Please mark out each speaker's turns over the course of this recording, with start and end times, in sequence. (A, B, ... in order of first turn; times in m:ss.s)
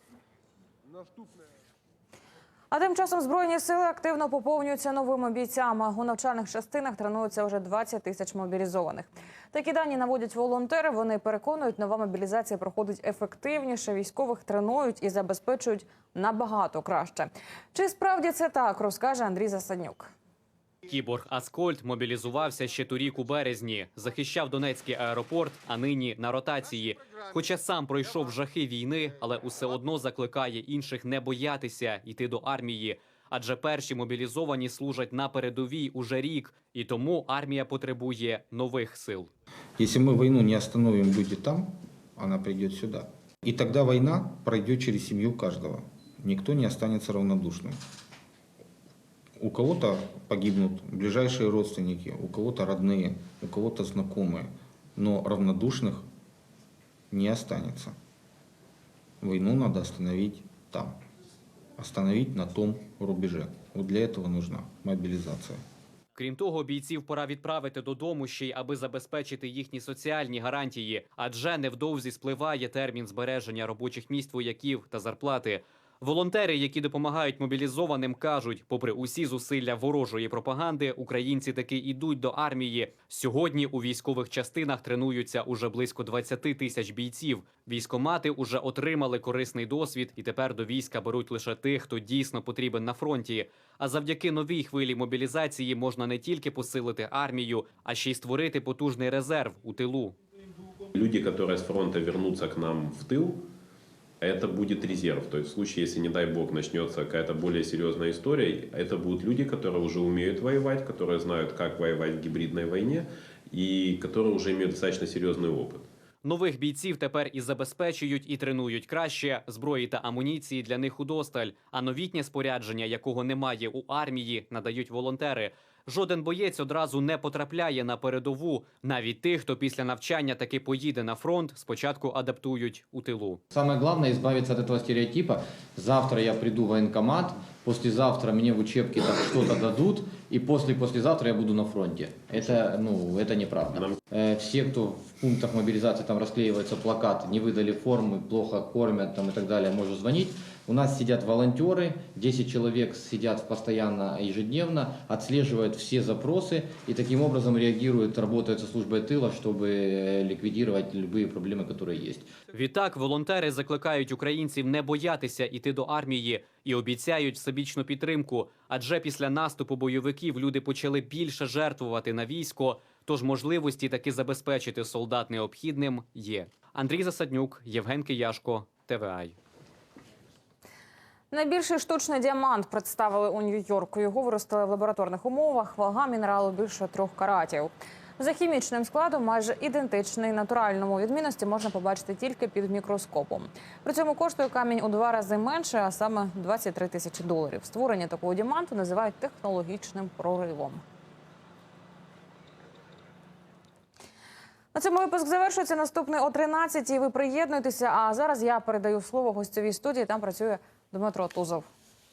0:02.7-0:20.1 A
0:20.9-0:39.3 B
0:39.8-0:47.8 C
0:49.4-0:56.0 C
0:57.1-0:58.0 C
0:59.2-1:01.0 C
1:01.8-1:05.6 C
1:06.2-1:40.2 B
1:41.0-1:43.4 D
1:44.2-1:55.9 D
1:56.2-2:13.4 B
2:13.5-2:42.3 E
2:23.7-2:24.0 D
2:42.5-2:59.4 B
3:01.3-3:20.8 A
3:24.7-3:31.7 A